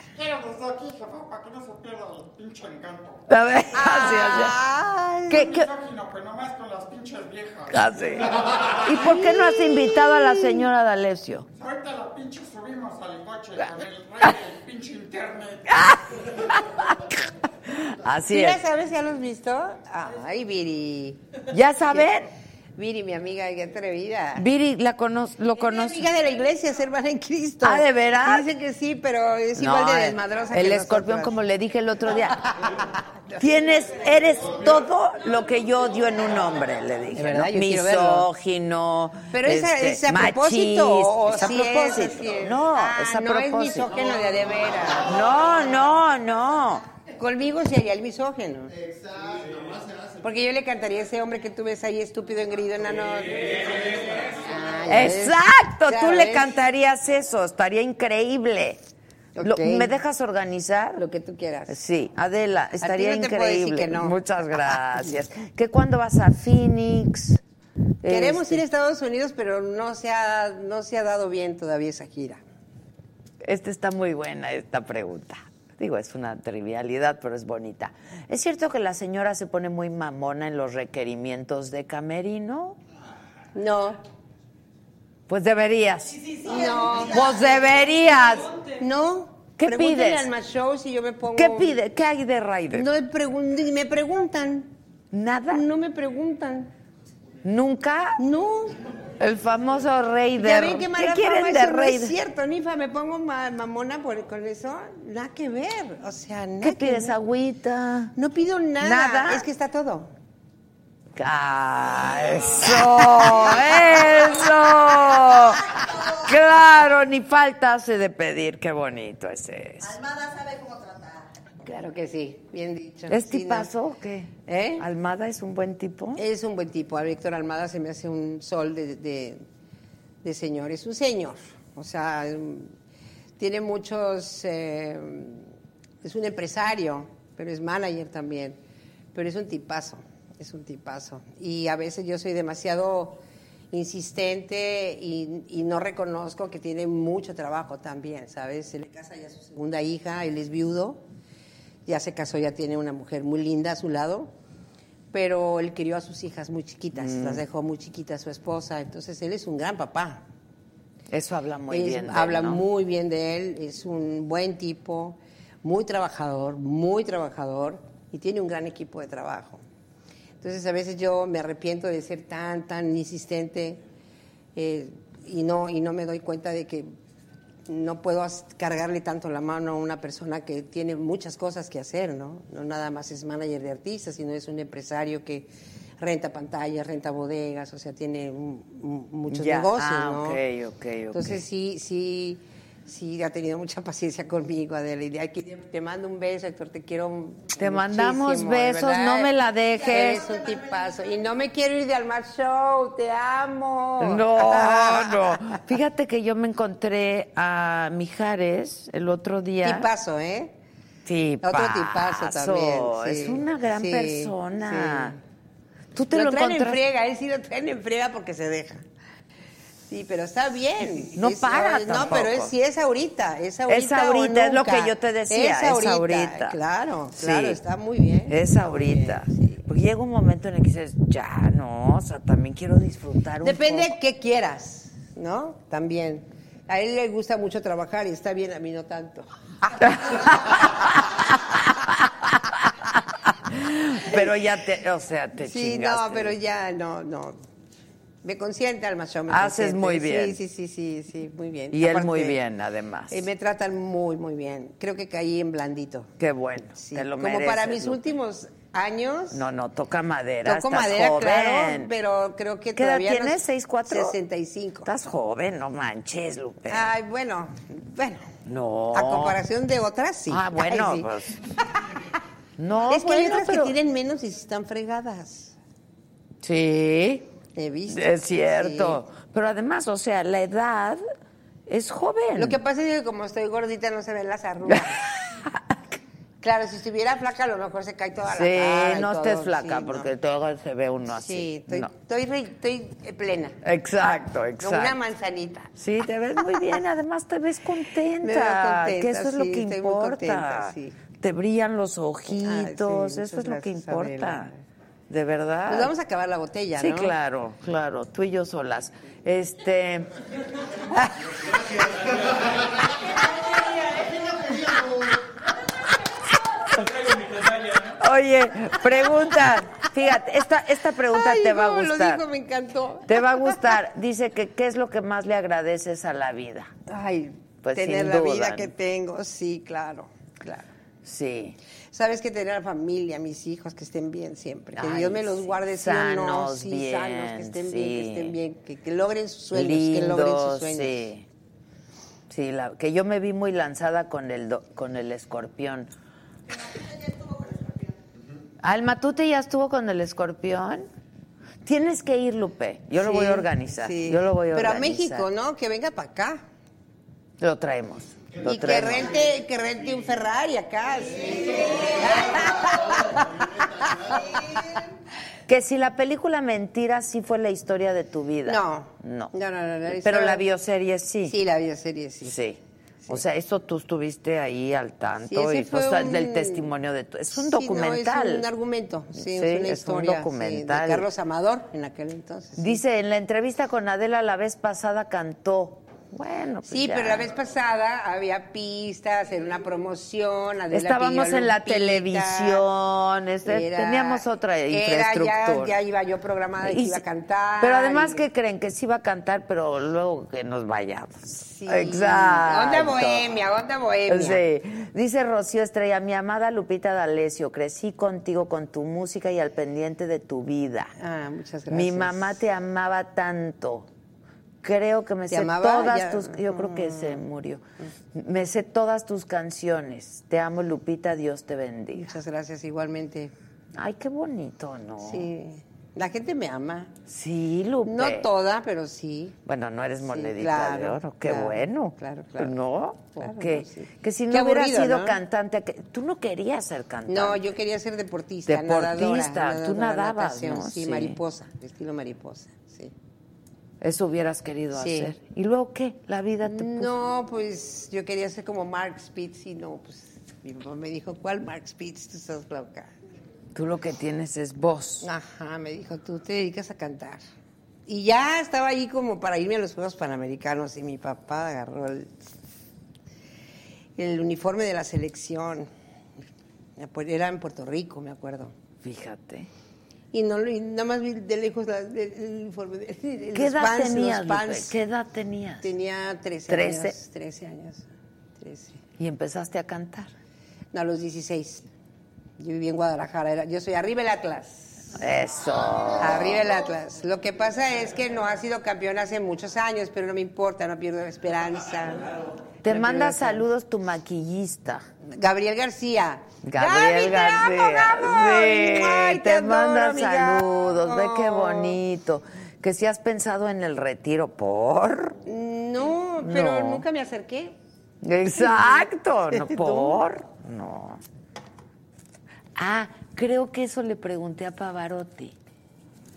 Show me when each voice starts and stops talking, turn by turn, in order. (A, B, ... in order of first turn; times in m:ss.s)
0:00.2-0:03.2 A
0:03.3-0:04.6 B
0:03.7-0:05.5 C
0:05.3-0:05.7 B
0:05.7-0:07.7 A
0:07.7-0:11.5 B
0:08.9-0:09.7 C
0:11.6-0:15.7 A
0:15.7-0:18.6 B
0:18.3-0:21.3 C
0:21.5-0:22.3 B
0:22.8-0:24.5 C
0:24.4-0:26.1 B
0:25.6-0:31.4 C
0:27.6-0:28.5 B
0:29.6-0:32.4 B
0:32.6-0:33.4 C
0:33.4-0:44.0 B
0:37.1-0:38.3 C
0:39.3-0:45.2 C
0:45.0-0:46.8 B
0:47.2-0:48.7 C
0:48.7-0:50.3 A
0:50.2-0:56.5 C
0:54.9-0:58.8 B
0:59.4-0:59.9 C
0:59.4-1:01.0 B
1:01.0-1:01.8 C
1:01.7-1:07.4 B
1:02.8-1:04.2 C
1:08.0-1:08.6 B
1:08.0-1:12.4 C
1:13.4-1:22.8 B
1:23.6-1:24.0 C
1:25.3-1:28.6 B
1:26.4-1:27.2 C
1:28.8-1:31.8 C
1:29.6-1:30.3 B
1:31.4-1:32.9 B
1:32.7-1:34.7 C
1:35.1-1:35.6 B
1:35.5-1:36.7 C
1:37.4-1:38.2 B
1:38.2-1:38.8 C
1:39.2-1:42.2 B
1:40.4-1:47.2 C
1:46.6-1:48.1 B
1:48.2-1:50.1 C
1:48.8-1:49.5 B
1:51.2-2:00.3 B
2:01.6-2:03.7 C
2:03.1-2:06.2 B
2:04.5-2:04.9 C
2:06.2-2:09.4 C
2:10.2-2:12.7 C
2:13.4-2:15.5 C
2:16.0-2:18.6 C
2:19.1-2:23.2 C
2:23.7-2:31.0 C
2:31.9-2:34.3 C
2:35.1-2:40.2 C
2:37.0-2:37.4 B
2:41.1-2:42.6 B
2:41.7-2:49.6 C
2:50.4-2:53.8 C
2:54.6-2:56.9 C
2:57.7-3:10.4 C
3:09.3-3:11.4 B
3:11.1-3:19.3 C
3:17.6-3:20.3 B
3:19.9-3:25.6 C
3:24.0-3:29.9 B
3:29.6-3:30.6 C
3:31.0-3:35.2 B
3:31.4-3:35.2 C
3:36.0-3:36.8 B
3:36.1-3:38.9 C
3:39.9-3:49.7 C
3:41.1-3:42.5 B
3:43.7-3:46.6 B
3:47.1-3:47.6 B
3:48.3-3:54.0 B
3:53.4-4:00.7 C
3:59.9-4:06.4 B
4:05.4-4:07.4 C
4:08.2-4:12.4 C
4:09.3-4:10.4 B
4:11.7-4:13.3 B
4:13.1-4:16.1 C
4:16.2-4:18.0 B
4:16.8-4:19.4 C
4:19.3-4:21.9 B
4:20.4-4:24.9 C
4:22.8-4:24.2 B
4:24.8-4:26.9 B
4:26.7-4:28.3 C
4:28.5-4:29.4 B
4:28.9-4:31.1 C
4:30.3-4:31.4 B
4:32.6-4:33.8 B
4:32.9-4:35.6 C
4:36.4-4:37.3 B
4:37.6-4:39.0 C
4:37.9-4:41.0 B
4:41.7-4:42.6 B
4:42.4-4:45.1 C
4:44.7-4:45.8 B
4:46.4-4:50.1 C
4:48.3-4:51.9 B
4:51.1-4:53.6 C
4:53.6-4:55.0 B
4:54.6-4:55.7 C
4:55.8-5:04.5 B
4:58.2-5:01.0 C
5:02.3-5:04.6 C
5:05.1-5:05.9 B
5:05.7-5:07.2 C
5:06.8-5:10.2 B
5:10.9-5:11.4 C
5:11.6-5:12.7 A
5:13.8-5:15.3 A
5:16.7-5:22.2 B
5:21.1-5:23.7 C
5:23.1-5:26.7 B
5:26.9-5:30.7 C
5:27.6-5:28.7 B
5:31.0-5:31.6 B
5:31.9-5:41.1 C
5:34.8-5:38.4 B
5:39.5-5:41.2 B
5:42.3-5:45.9 B
5:48.6-5:50.9 B
5:51.6-5:55.3 B
5:53.0-5:56.4 C
5:57.4-5:59.2 B
5:58.4-6:03.4 C
5:58.4-5:59.4 A
6:01.0-6:04.5 A
6:04.3-6:04.8 C
6:05.5-6:09.3 B
6:08.4-6:10.4 C
6:09.9-6:11.4 B
6:11.2-6:12.4 C
6:12.2-6:18.5 B
6:15.3-6:16.7 C
6:17.3-6:22.8 C
6:19.2-6:21.1 B
6:22.6-6:27.3 B
6:26.7-6:32.6 C
6:30.7-6:35.8 B
6:33.4-6:38.2 C
6:36.6-6:37.0 B
6:37.6-6:43.4 B
6:41.4-6:44.4 C
6:44.1-6:50.9 B
6:51.0-6:52.4 C
6:51.7-6:53.9 B
6:54.6-6:57.6 B
6:55.3-6:57.2 C
6:58.1-7:02.2 B
7:01.9-7:03.3 C
7:03.8-7:05.3 B
7:05.0-7:06.9 C
7:07.1-7:08.3 B
7:07.8-7:09.4 C
7:09.4-7:17.4 B
7:10.0-7:12.6 C
7:13.2-7:15.2 C
7:17.1-7:22.9 C
7:18.5-7:21.2 B
7:23.8-7:26.9 B
7:24.7-7:25.2 C
7:26.4-7:32.9 C
7:33.5-7:35.1 B
7:35.0-7:37.2 C
7:37.9-7:42.3 C
7:44.0-7:45.7 C
7:46.8-7:48.5 C
7:48.8-7:49.5 B
7:50.1-7:54.8 C
7:53.3-7:55.7 B
7:55.6-7:57.9 C
7:56.5-7:57.0 B
7:58.4-7:58.8 C
7:59.0-8:00.1 B
8:00.7-8:01.7 C
8:02.4-8:05.0 C
8:05.0-8:06.5 B
8:06.0-8:13.4 C
8:12.6-8:14.8 B
8:15.1-8:21.8 C
8:16.4-8:25.2 B
8:25.3-8:27.6 C
8:26.2-8:26.8 B
8:28.0-8:31.0 B
8:28.4-8:30.0 C
8:32.6-8:35.4 B